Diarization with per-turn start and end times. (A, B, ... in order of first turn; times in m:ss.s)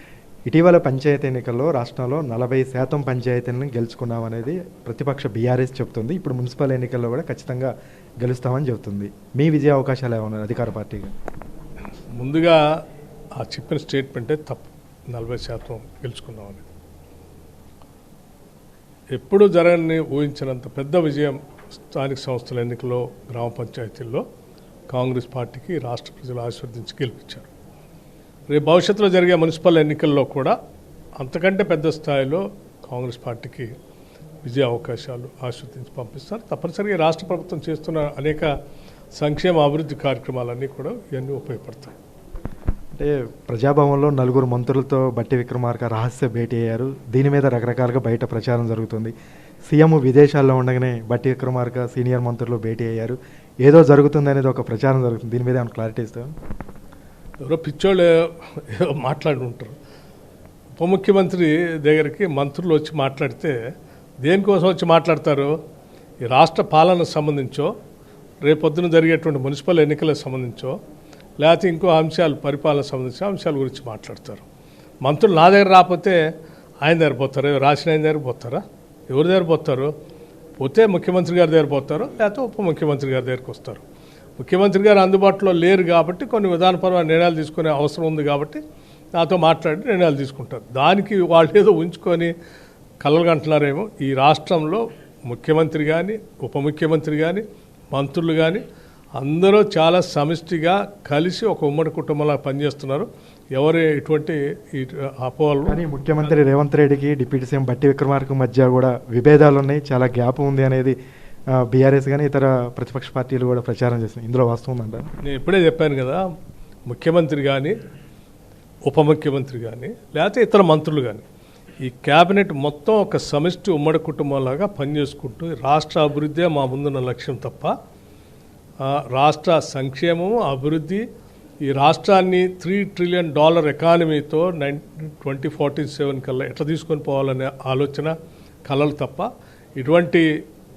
0:00.5-0:11.1 A
0:12.1-0:12.8 B
0:13.4-0:16.6 B
0:19.1-0:24.2 B
0:24.9-0:27.5 B
0:28.5-0:30.6 B
0:31.2-0:33.7 B
0:34.4-0:38.5 B
0:39.2-0:41.9 B
0:42.9-0:49.1 A
0:49.7-0:56.3 A
0:57.4-0:59.7 B
1:00.8-1:03.6 B
1:04.2-1:05.5 B
1:06.2-1:07.7 B
1:08.4-1:10.8 B
1:11.4-1:14.4 B
1:15.0-1:16.3 B
1:16.8-1:19.9 B
1:20.6-1:23.8 B
1:24.4-1:28.6 B
1:29.2-1:32.3 B
1:33.0-1:38.6 B
1:39.2-1:45.8 B
1:45.6-1:51.0 A
1:51.5-1:55.1 A
1:55.2-1:56.2 B
1:56.9-1:57.7 B
1:58.8-2:01.2 B
2:01.8-2:07.7 B
2:08.8-2:11.0 B
2:11.6-2:18.1 B
2:18.6-2:20.4 B